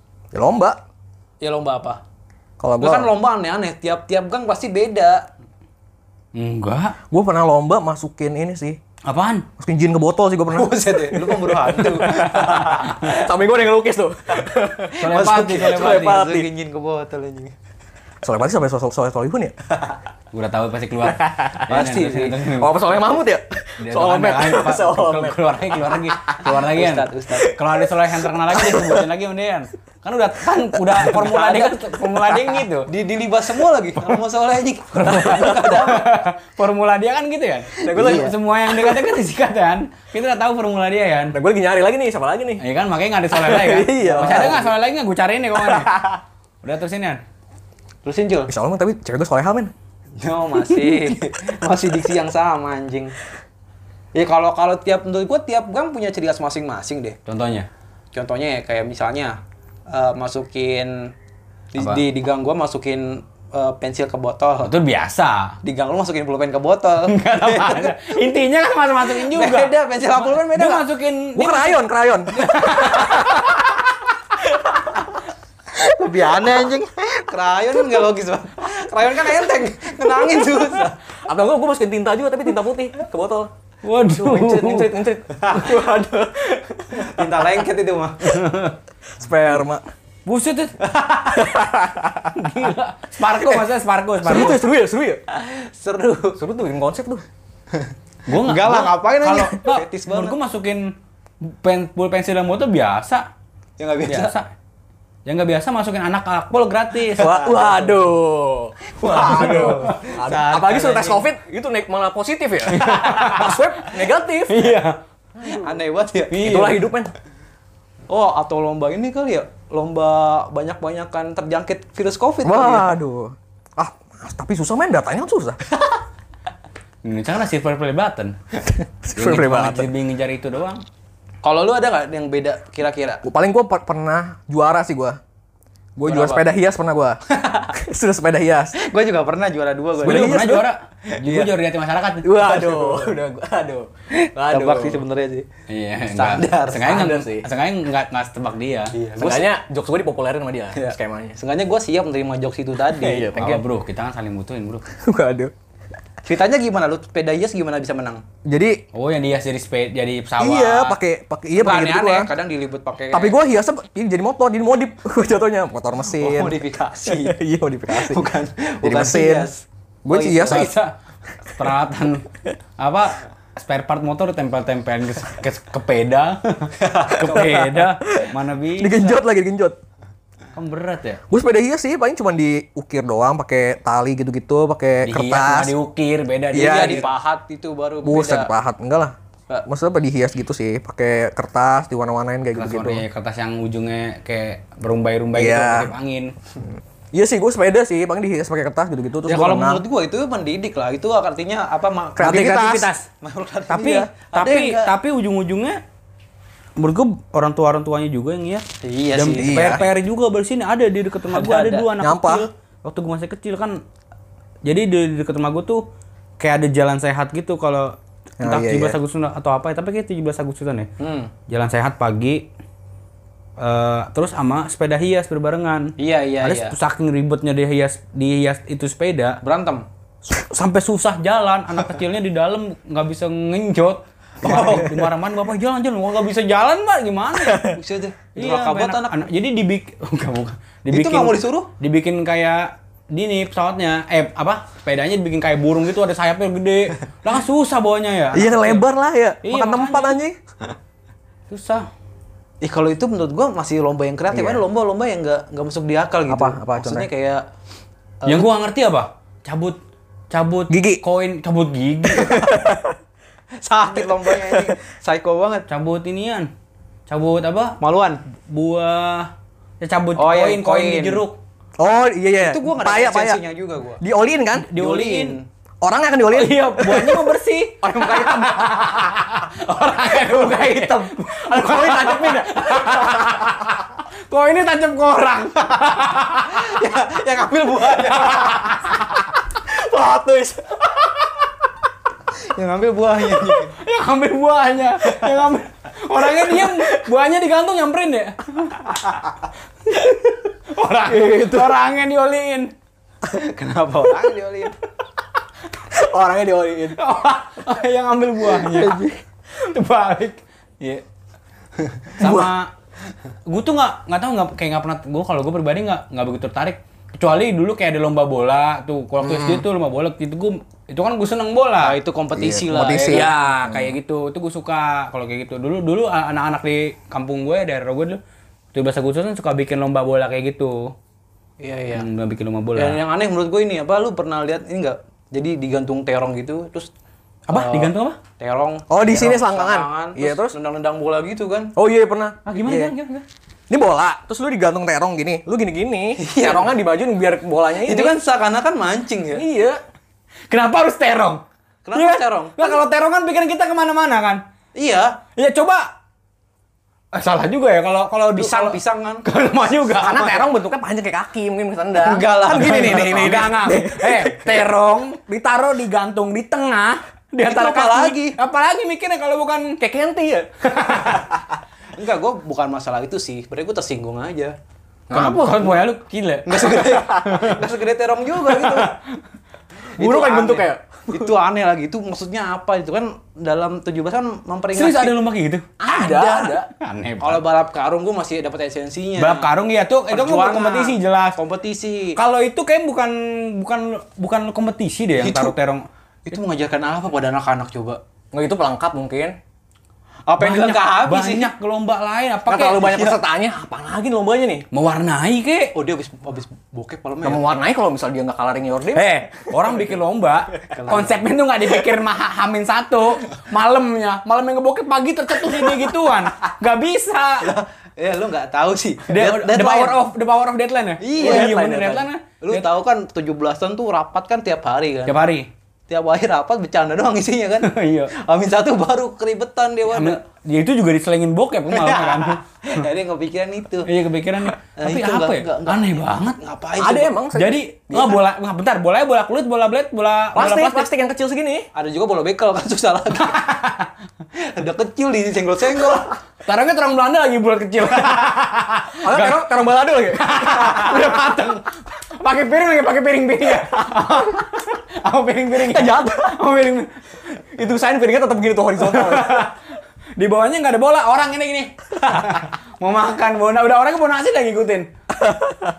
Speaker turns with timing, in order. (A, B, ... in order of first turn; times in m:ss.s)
0:00.3-0:00.8 A
0:01.4-0:02.0 B
0:02.6-0:03.1 A
0:02.8-0:05.3 B
0:06.4-0:07.0 C
0:07.1-0:08.8 A
0:09.1-0:09.5 C
0:09.6-0:16.5 A
0:10.5-0:13.3 B
0:14.9-0:17.5 B
0:15.0-0:16.2 C
0:18.2-0:19.6 A
0:20.3-0:22.9 C
0:21.0-0:26.4 A
0:21.7-0:22.4 B
0:23.8-0:32.9 C
0:26.4-0:27.5 B
0:28.5-0:29.0 A
0:31.1-0:31.9 B
0:32.9-0:36.2 B
0:35.0-0:41.4 C
0:37.8-0:38.4 A
0:41.3-0:42.6 A
0:42.6-0:47.2 C
0:43.3-0:44.7 A
0:44.0-0:44.7 B
0:45.6-0:46.0 A
0:48.0-0:48.5 B
0:48.5-0:49.7 A
0:50.2-0:53.2 B
0:54.1-0:57.2 B
0:57.3-0:57.7 C
0:58.1-0:59.4 B
0:59.9-1:01.1 B
1:01.7-1:04.7 B
1:01.8-1:02.0 C
1:04.6-1:05.6 C
1:05.6-1:08.1 B
1:07.1-1:13.8 C
1:09.1-1:10.8 B
1:11.4-1:12.4 A
1:12.5-1:13.3 B
1:15.8-1:21.0 B
1:21.2-1:23.5 A
1:23.8-1:25.0 C
1:24.0-1:27.3 A
1:25.3-1:25.8 B
1:26.9-1:28.6 B
1:28.3-1:28.8 C
1:29.2-1:29.8 A
1:30.3-1:30.8 C
1:30.8-1:31.5 B
1:31.4-1:32.7 A
1:32.4-1:34.6 C
1:33.3-1:33.7 A
1:34.2-1:35.2 A
1:35.3-1:36.4 B
1:36.4-1:37.2 A
1:37.8-1:40.4 B
1:38.3-1:40.9 C
1:41.4-1:43.2 C
1:43.8-1:44.4 B
1:44.1-1:44.5 C
1:45.3-1:47.7 C
1:47.1-1:54.8 A
1:49.0-1:51.3 B
1:49.1-1:50.0 C
1:52.7-1:55.0 C
1:52.9-1:53.4 B
1:55.4-1:55.7 A
1:55.4-1:56.6 B
1:56.3-1:57.1 A
1:56.3-1:56.8 C
1:58.1-2:02.9 B
2:02.4-2:05.6 A
2:07.0-2:08.4 C
2:09.0-2:09.9 A
2:09.2-2:10.8 C
2:11.4-2:13.2 B
2:13.2-2:15.2 A
2:16.0-2:17.2 A
2:16.1-2:16.4 B
2:17.3-2:17.7 B
2:17.7-2:18.8 A
2:18.7-2:20.5 B
2:20.0-2:20.7 A
2:20.0-2:22.5 C
2:22.2-2:25.0 A
2:22.5-2:23.0 B
2:24.1-2:25.5 B
2:25.7-2:28.9 C
2:26.1-2:27.2 B
2:26.8-2:27.5 A
2:28.9-2:29.6 B
2:29.2-2:31.4 A
2:30.7-2:33.4 B
2:33.0-2:33.6 A
2:33.2-2:34.8 C
2:34.9-2:35.5 A
2:36.2-2:38.2 B
2:38.4-2:38.8 A
2:38.9-2:41.0 C
2:40.4-2:42.3 A
2:41.6-2:43.4 B
2:43.1-2:48.3 A
2:46.1-2:47.4 B
2:47.9-2:50.7 B
2:48.8-2:49.5 A
2:50.0-2:50.7 A
2:50.5-2:50.9 C
2:51.5-2:52.3 C
2:52.8-2:59.2 C
2:56.8-2:57.7 B
2:57.2-2:59.8 A
3:00.6-3:01.2 C
3:01.3-3:05.8 A
3:05.1-3:07.0 C
3:06.5-3:07.0 A
3:06.6-3:08.5 B
3:08.0-3:09.1 A
3:09.6-3:13.0 A
3:12.6-3:16.3 C
3:15.3-3:15.9 A
3:17.1-3:19.8 A
3:19.3-3:25.0 B
3:22.2-3:23.0 C
3:22.2-3:22.9 A
3:23.7-3:25.8 C
3:26.8-3:28.6 C
3:28.8-3:29.8 B
3:29.2-3:33.8 C
3:29.4-3:29.8 A
3:31.3-3:31.9 B
3:32.0-3:32.5 A
3:34.6-3:35.8 C
3:36.4-3:40.9 C
3:38.4-3:39.0 A
3:41.0-3:41.3 B
3:41.5-3:42.4 C
3:43.6-3:49.4 C
3:46.0-3:46.8 B
3:49.4-3:49.8 B
3:50.3-3:57.8 C
3:54.4-3:55.0 B
3:54.5-3:54.8 A
3:57.6-3:59.2 B
3:58.4-4:08.8 C
4:00.9-4:01.7 B
4:08.3-4:10.4 A
4:09.4-4:10.2 C
4:11.5-4:11.9 C
4:12.6-4:17.4 B
4:14.3-4:14.6 A
4:16.3-4:17.1 A
4:18.2-4:18.5 B
4:18.3-4:19.8 C
4:20.3-4:22.6 C
4:20.7-4:21.0 A
4:22.1-4:23.0 A
4:23.6-4:25.6 B
4:24.3-4:24.7 A
4:25.7-4:26.5 C
4:27.1-4:27.8 C
4:27.8-4:28.2 B
4:28.4-4:31.4 C
4:30.2-4:31.2 B
4:31.8-4:33.4 A
4:32.4-4:34.0 B
4:34.0-4:34.7 A
4:34.6-4:35.4 C
4:34.8-4:35.4 B
4:35.8-4:37.3 A
4:36.3-4:46.8 C
4:37.8-4:39.1 A
4:40.4-4:41.0 B
4:41.4-4:43.6 A
4:46.5-4:48.7 B
4:48.1-4:49.1 C
4:49.7-4:50.8 A
4:52.5-4:53.8 B
4:53.7-4:59.2 C
4:59.9-5:02.7 C
5:01.1-5:01.8 A
5:03.3-5:04.8 B
5:05.9-5:07.0 A
5:07.0-5:11.0 C
5:08.6-5:09.1 A
5:08.8-5:09.1 B
5:12.2-5:12.7 C
5:12.2-5:12.5 A
5:13.5-5:22.0 C
5:19.2-5:19.6 A
5:21.8-5:23.3 B
5:22.4-5:23.9 A
5:23.1-5:28.2 C
5:28.7-5:30.9 C
5:31.6-5:32.1 B
5:31.9-5:33.0 C
5:32.8-5:36.9 B
5:37.5-5:38.2 C
5:37.5-5:41.7 B
5:38.9-5:40.6 A
5:41.8-5:43.0 A
5:42.5-5:43.2 C
5:43.7-5:48.2 A
5:46.2-5:46.8 B
5:47.8-5:49.4 B
5:49.4-5:49.8 A
5:50.5-5:51.4 C
5:51.9-5:52.8 B
5:51.9-5:54.4 C
5:54.8-5:55.2 B
5:55.4-5:55.9 C
5:57.1-6:00.5 C
5:58.4-5:59.3 B
5:59.9-6:04.7 A
6:02.0-6:03.6 B
6:02.6-6:09.9 C
6:07.4-6:08.4 B
6:09.8-6:10.5 A
6:10.6-6:11.3 C
6:11.9-6:14.6 B
6:15.1-6:15.8 A
6:15.1-6:17.6 C
6:16.4-6:19.0 B
6:16.9-6:17.3 A
6:18.6-6:19.1 C
6:20.0-6:25.1 B
6:20.0-6:21.3 A
6:24.8-6:27.4 C
6:25.8-6:26.7 A
6:27.2-6:29.5 B
6:29.2-6:31.4 C
6:30.1-6:32.2 B
6:32.2-6:35.8 C
6:35.2-6:35.5 A
6:36.3-6:38.0 B
6:38.3-6:39.4 A
6:40.3-6:41.5 B
6:40.4-6:43.1 C
6:42.5-6:44.7 A
6:44.7-6:45.7 C
6:45.8-6:47.4 B
6:47.2-6:49.7 A
6:48.9-6:57.5 C
6:50.6-6:51.2 B
6:57.4-7:00.0 B
6:59.1-7:02.7 C
7:01.0-7:01.6 B
7:01.2-7:02.1 A
7:02.4-7:05.2 B
7:05.1-7:05.5 C
7:05.9-7:10.2 B
7:07.6-7:08.1 C
7:09.9-7:12.4 C
7:11.7-7:13.9 B
7:13.8-7:16.4 C
7:14.8-7:17.2 B
7:16.8-7:18.2 A
7:17.3-7:20.9 C
7:20.4-7:21.7 A
7:21.8-7:23.5 B
7:23.2-7:23.9 C
7:24.4-7:26.1 B
7:26.4-7:29.6 C
7:29.0-7:31.2 A
7:30.1-7:36.9 C
7:35.6-7:36.4 A
7:37.6-7:39.5 A
7:38.8-7:39.6 C
7:40.2-7:44.9 C
7:45.2-7:45.7 A